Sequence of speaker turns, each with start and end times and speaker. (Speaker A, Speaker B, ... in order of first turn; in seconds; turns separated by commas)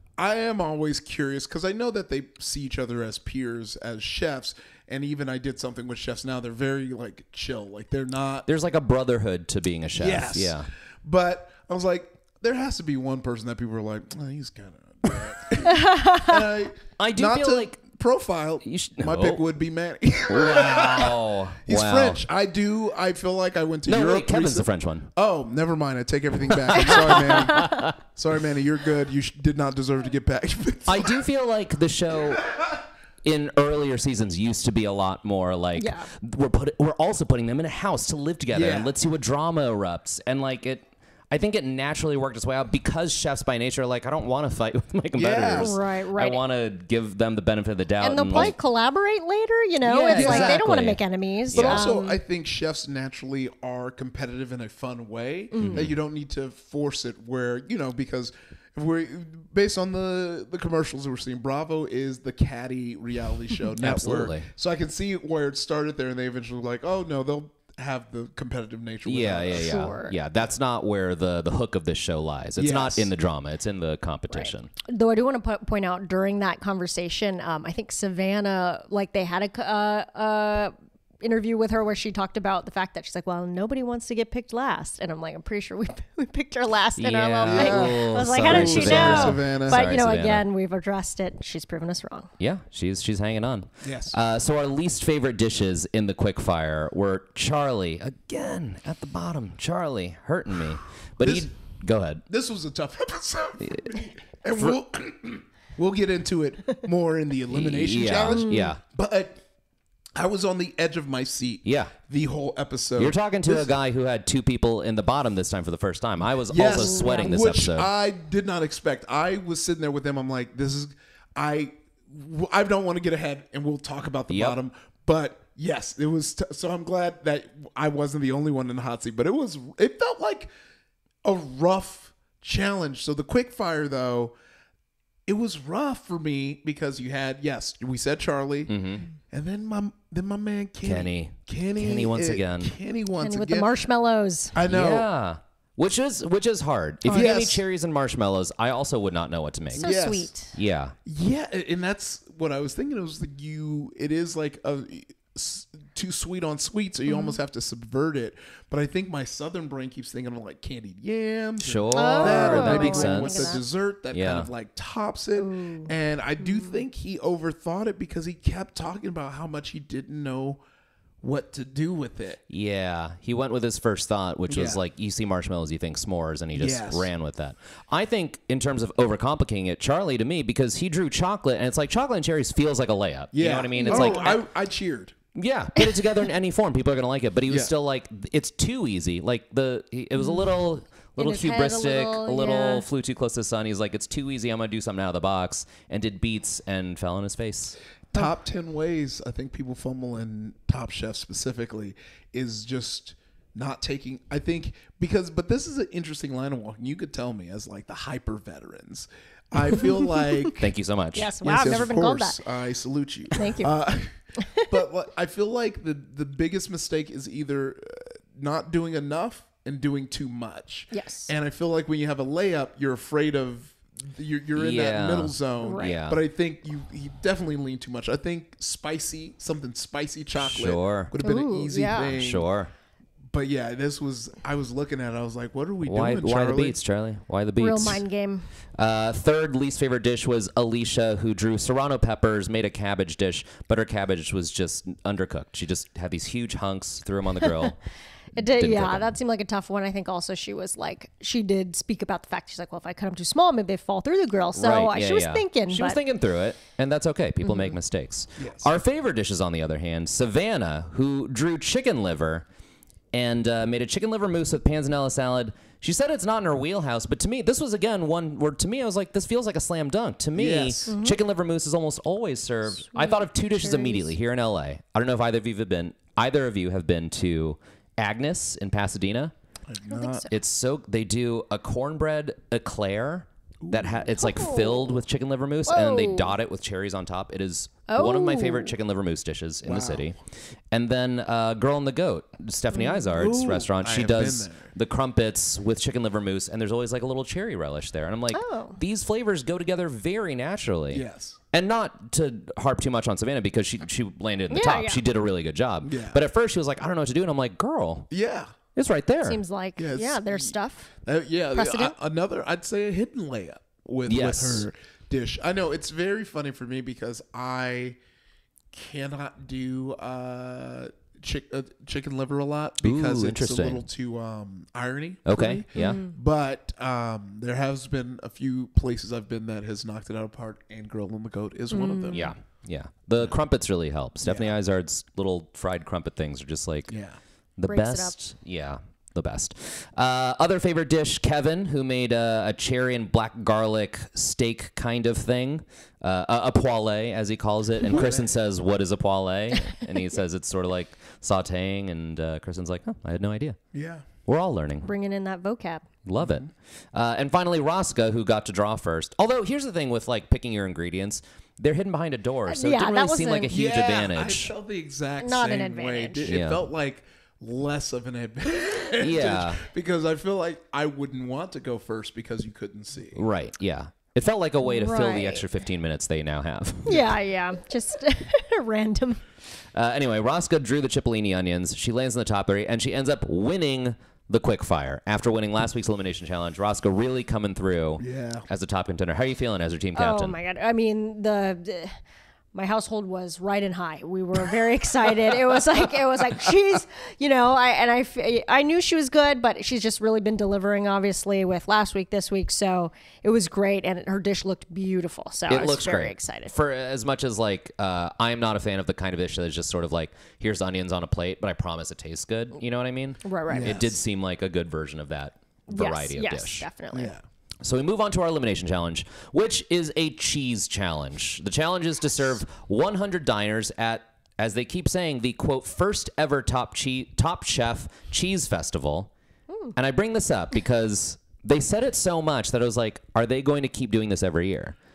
Speaker A: 0.2-8.5, Speaker B: 8.5-10.7, Speaker A: 9.9-31.2, Speaker C: 15.6-16.5, Speaker B: 17.0-17.8, Speaker B: 18.6-19.4, Speaker B: 20.3-22.2, Speaker B: 23.9-25.1, Speaker B: 26.7-28.0, Speaker C: 26.8-27.9, Speaker B: 30.9-32.7, Speaker B: 33.2-48.5, Speaker C: 35.8-36.1, Speaker A: 38.5-38.9, Speaker A: 45.2-45.7, Speaker C: 45.6-46.4, Speaker C: 48.0-52.2, Speaker B: 49.8-51.8, Speaker A: 50.2-50.6, Speaker A: 51.5-69.9, Speaker C: 55.5-55.9, Speaker B: 55.6-55.9, Speaker B: 63.8-64.5, Speaker B: 69.0-74.7, Speaker C: 69.5-70.2, Speaker A: 72.6-73.1, Speaker C: 74.3-92.3, Speaker B: 87.0-90.5, Speaker A: 87.4-90.0, Speaker B: 92.4-102.2, Speaker A: 93.8-94.2, Speaker A: 101.2-101.5, Speaker A: 102.3-109.4, Speaker B: 103.7-103.9, Speaker B: 107.5-108.8, Speaker C: 108.2-108.7, Speaker A: 110.2-113.7, Speaker B: 111.7-111.9, Speaker B: 113.0-117.9, Speaker A: 116.5-130.5, Speaker C: 116.7-117.3, Speaker B: 124.3-124.6, Speaker A: 131.2-134.3, Speaker A: 135.3-143.7, Speaker B: 138.7-139.1, Speaker B: 140.8-142.7, Speaker C: 143.2-144.6, Speaker A: 144.5-145.1, Speaker B: 144.7-150.0, Speaker C: 147.1-147.5, Speaker A: 147.1-147.6, Speaker C: 149.8-150.6, Speaker A: 149.8-150.3, Speaker B: 150.5-150.9, Speaker A: 151.1-170.6, Speaker C: 157.1-157.4, Speaker B: 161.6-163.6, Speaker C: 161.9-163.6, Speaker B: 164.1-164.5, Speaker C: 165.4-166.8, Speaker A: 171.2-172.4, Speaker B: 172.5-184.4, Speaker A: 174.5-174.8, Speaker A: 176.5-177.1, Speaker A: 183.3-185.2, Speaker C: 183.8-184.3, Speaker B: 185.3-197.8, Speaker C: 190.2-190.5, Speaker C: 191.2-192.8, Speaker A: 198.1-210.6, Speaker C: 209.7-210.6, Speaker B: 210.6-211.8, Speaker C: 211.2-212.4, Speaker A: 211.4-214.1, Speaker C: 213.3-213.7, Speaker C: 214.4-214.8, Speaker A: 214.7-232.5, Speaker C: 220.9-221.3, Speaker B: 224.6-226.2, Speaker C: 225.6-226.0, Speaker B: 230.4-231.1, Speaker C: 231.2-232.2, Speaker B: 232.2-232.7, Speaker A: 233.3-236.8, Speaker B: 235.8-238.0, Speaker C: 237.6-238.5, Speaker B: 238.7-247.8, Speaker C: 247.4-247.7, Speaker B: 248.3-249.1, Speaker C: 248.4-256.0, Speaker B: 254.6-262.4, Speaker C: 257.4-257.8, Speaker A: 258.4-258.7, Speaker B: 263.1-279.3, Speaker A: 270.4-270.9, Speaker C: 270.9-271.2, Speaker C: 272.9-274.1, Speaker A: 279.7-280.2, Speaker C: 279.9-280.3, Speaker B: 280.3-290.2, Speaker A: 283.6-284.0, Speaker C: 284.1-285.0, Speaker C: 285.7-286.3, Speaker C: 287.9-288.8, Speaker A: 289.6-290.1, Speaker B: 290.7-308.1, Speaker C: 292.7-293.1, Speaker A: 293.1-294.7, Speaker C: 298.3-298.8, Speaker A: 300.9-301.4, Speaker C: 304.5-305.0, Speaker A: 305.8-306.2, Speaker A: 308.1-308.5, Speaker B: 308.8-309.4, Speaker C: 309.2-311.0, Speaker A: 309.8-318.0, Speaker C: 311.6-311.9, Speaker B: 314.1-314.6, Speaker A: 318.7-332.3, Speaker B: 322.8-323.9, Speaker B: 325.3-326.0, Speaker C: 325.8-326.1, Speaker C: 331.7-332.3, Speaker B: 332.1-336.9, Speaker A: 334.2-334.6, Speaker A: 336.9-337.2, Speaker B: 337.6-353.6, Speaker C: 337.7-338.1, Speaker A: 347.9-348.3, Speaker A: 353.7-354.1, Speaker B: 354.2-354.9, Speaker C: 354.9-355.9, Speaker B: 356.1-364.5, Speaker A: 356.2-356.5, Speaker C: 362.5-363.5, Speaker A: 363.5-373.2, Speaker C: 365.2-366.3, Speaker B: 366.3-366.6, Speaker B: 369.0-369.6, Speaker B: 373.1-377.0, Speaker C: 374.6-375.5, Speaker C: 376.9-379.2, Speaker B: 379.7-390.4, Speaker A: 388.0-388.5, Speaker C: 389.9-392.0, Speaker C: 392.5-406.5, Speaker B: 405.5-416.7, Speaker C: 413.2-413.8, Speaker A: 413.5-413.9, Speaker C: 415.7-417.1, Speaker A: 416.9-417.2, Speaker B: 417.6-429.1, Speaker C: 429.5-429.8, Speaker B: 429.8-434.8